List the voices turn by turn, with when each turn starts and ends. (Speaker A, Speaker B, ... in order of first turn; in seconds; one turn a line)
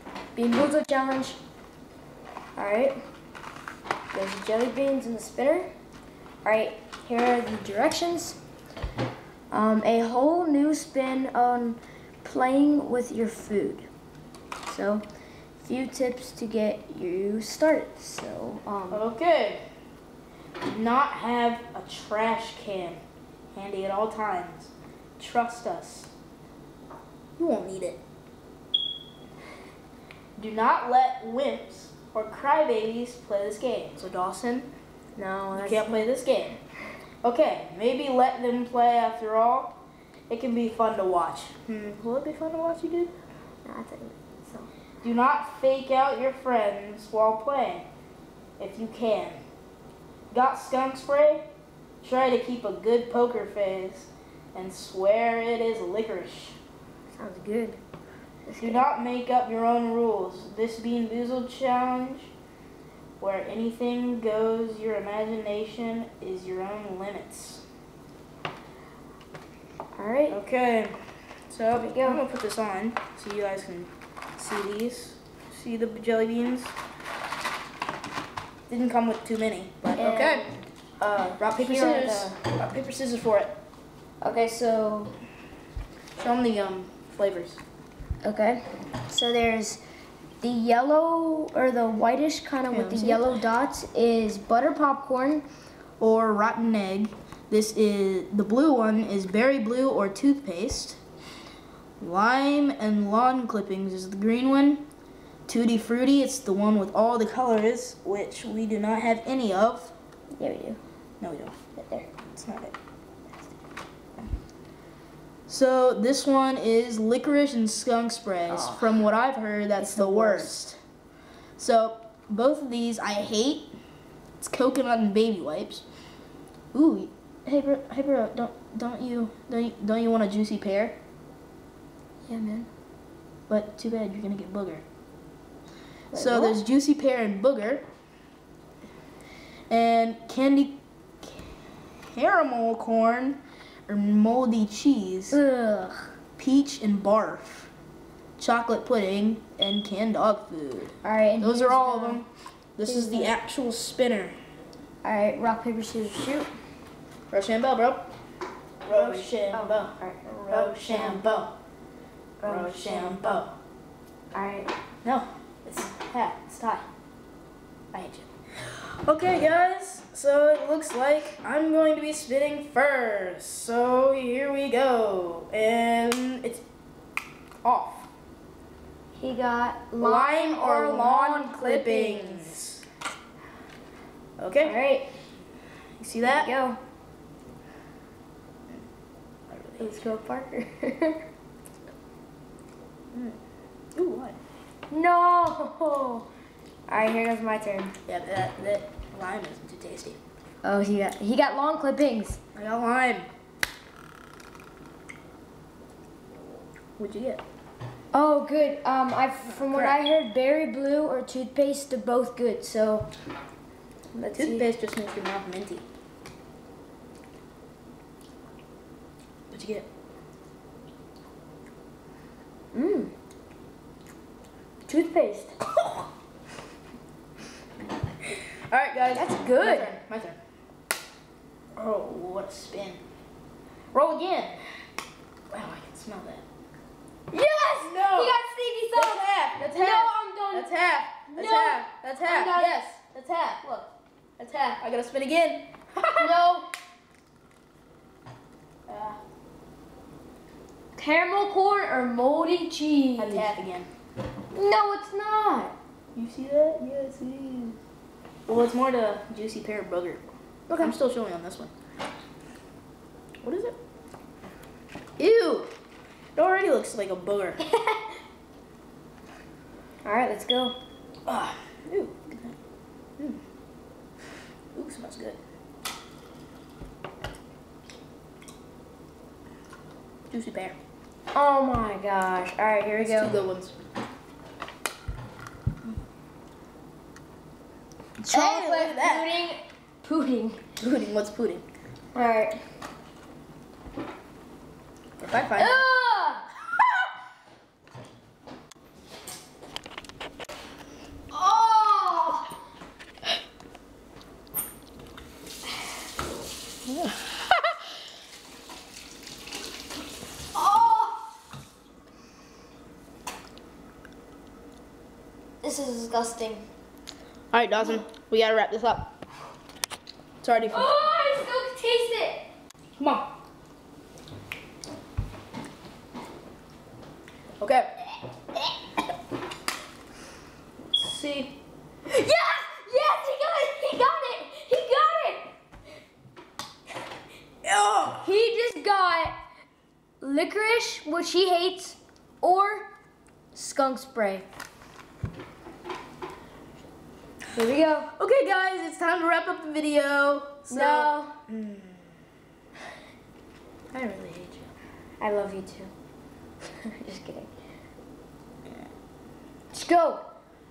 Speaker A: 0.3-1.4
Speaker A: 2.5-3.0
Speaker A: 4.1-5.7
Speaker A: 6.4-8.4
Speaker A: 9.5-13.9
Speaker A: 14.7-15.1
Speaker A: 15.6-19.0
Speaker B: 18.9-19.6
Speaker B: 20.6-26.1
Speaker B: 27.4-28.0
Speaker B: 30.4-34.7
Speaker A: 35.1-36.1
Speaker B: 35.5-36.6
Speaker B: 37.2-43.1
Speaker A: 43.6-44.7
Speaker B: 45.0-47.9
Speaker B: 48.6-49.4
Speaker B: 50.3-51.5
Speaker B: 52.0-56.6
Speaker A: 57.1-57.8
Speaker A: 58.5-58.9
Speaker B: 58.6-62.3
Speaker B: 63.2-67.6
Speaker A: 69.9-70.4
Speaker B: 70.3-71.0
Speaker B: 71.5-76.7
Speaker A: 71.7-72.2
Speaker B: 78.7-80.4
Speaker A: 79.9-82.3
Speaker B: 81.4-83.5
Speaker A: 84.2-85.1
Speaker B: 86.2-87.6
Speaker A: 88.2-89.8
Speaker A: 90.4-95.4
Speaker B: 92.7-93.4
Speaker B: 96.0-101.0
Speaker B: 102.0-104.8
Speaker B: 105.5-109.9
Speaker A: 110.3-110.8
Speaker B: 111.2-111.5
Speaker A: 111.8-112.1
Speaker B: 112.3-112.7
Speaker B: 115.5-120.8
Speaker A: 118.5-118.9
Speaker A: 119.8-120.5
Speaker B: 121.6-123.7
Speaker B: 124.4-125.8
Speaker B: 126.7-130.9
Speaker A: 132.3-132.7
Speaker B: 133.5-134.8
Speaker A: 136.1-136.6
Speaker B: 136.1-137.8
Speaker B: 139.7-141.5
Speaker B: 142.1-145.4
Speaker A: 145.3-146.1
Speaker B: 146.4-147.7
Speaker B: 148.4-154.4
Speaker A: 151.0-152.2
Speaker A: 152.8-153.3
Speaker A: 155.0-156.5
Speaker B: 157.3-158.1
Speaker B: 158.8-161.5
Speaker A: 158.9-161.2
Speaker A: 162.4-163.4
Speaker B: 162.4-163.5
Speaker A: 164.3-164.7
Speaker B: 165.0-166.9
Speaker B: 167.9-176.6
Speaker B: 177.6-178.1
Speaker A: 179.1-182.6
Speaker B: 180.0-182.8
Speaker B: 184.4-184.8
Speaker A: 184.6-185.1
Speaker B: 186.0-186.5
Speaker A: 186.2-186.8
Speaker B: 189.5-190.1
Speaker A: 189.8-191.2
Speaker B: 193.1-193.4
Speaker B: 193.9-194.4
Speaker A: 194.9-196.3
Speaker A: 196.9-197.9
Speaker B: 198.1-200.2
Speaker A: 200.6-202.4
Speaker B: 202.5-203.3
Speaker B: 207.0-207.4
Speaker A: 208.1-213.1
Speaker B: 209.4-210.0
Speaker A: 214.1-214.7
Speaker B: 214.3-215.8
Speaker B: 219.5-219.9
Speaker A: 222.7-223.1
Speaker A: 224.9-225.6
Speaker B: 228.7-230.4
Speaker A: 229.1-229.9
Speaker B: 231.7-233.0
Speaker B: 233.9-234.6
Speaker B: 235.5-236.4
Speaker A: 237.3-240.7
Speaker B: 237.8-238.4
Speaker B: 238.9-246.3
Speaker A: 241.3-242.8
Speaker A: 246.2-246.7
Speaker B: 248.9-249.2
Speaker A: 250.9-253.5
Speaker B: 253.2-253.9
Speaker A: 254.5-255.7
Speaker B: 256.1-257.8
Speaker B: 258.5-261.7
Speaker A: 260.7-260.9
Speaker B: 263.4-263.8
Speaker B: 265.2-265.7
Speaker B: 266.4-267.6
Speaker A: 270.0-270.8
Speaker B: 271.2-272.6
Speaker B: 274.7-275.4
Speaker B: 280.3-280.8
Speaker A: 281.3-283.3
Speaker B: 283.0-283.8
Speaker B: 288.2-289.4
Speaker A: 288.3-290.6
Speaker B: 290.8-291.6
Speaker A: 292.1-292.6
Speaker B: 295.2-295.8
Speaker A: 295.5-296.5
Speaker A: 301.3-302.5
Speaker B: 306.9-307.4
Speaker A: 310.5-311.2
Speaker A: 315.6-316.7
Speaker B: 317.5-319.1
Speaker B: 320.4-320.9
Speaker A: 320.7-322.5
Speaker B: 323.0-323.3
Speaker B: 327.6-327.9
Speaker B: 330.9-331.5
Speaker A: 332.1-335.5
Speaker B: 337.6-338.3
Speaker A: 338.2-339.4
Speaker A: 340.2-342.9
Speaker A: 343.5-344.4
Speaker A: 347.5-348.1
Speaker B: 348.1-352.1
Speaker A: 350.7-351.4
Speaker B: 353.9-354.7
Speaker A: 355.2-355.9
Speaker A: 356.8-357.5
Speaker A: 359.7-360.2